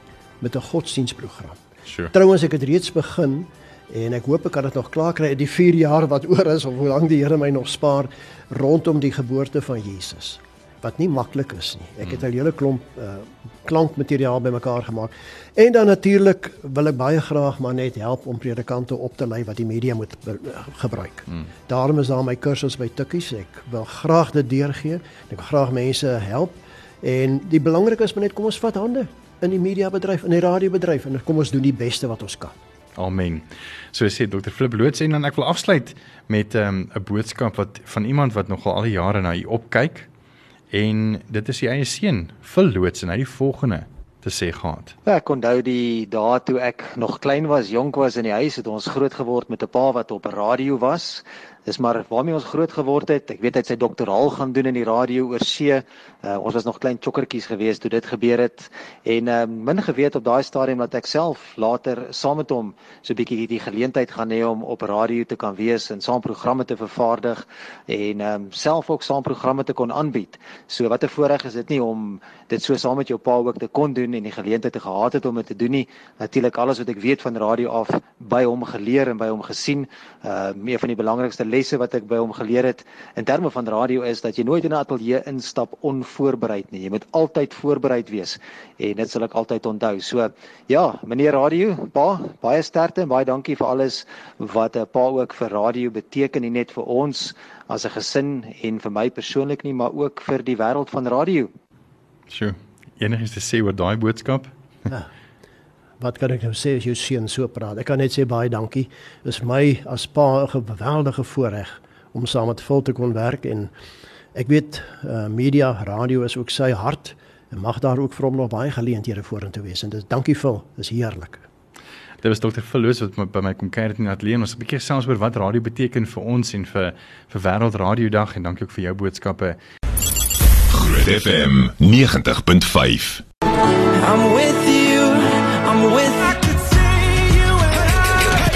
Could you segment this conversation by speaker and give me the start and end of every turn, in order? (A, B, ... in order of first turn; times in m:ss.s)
0:00.4-0:01.6 A
0:01.9-0:02.1 B
0:02.1-0:32.6 A
0:33.0-0:40.1 B
0:40.7-0:44.9 B
0:45.0-1:41.5 C
1:42.3-1:44.5 B
1:46.0-1:53.7 A
1:54.3-2:01.4 A
2:02.2-2:09.6 B
2:10.7-2:13.2 D
2:13.9-2:18.4 E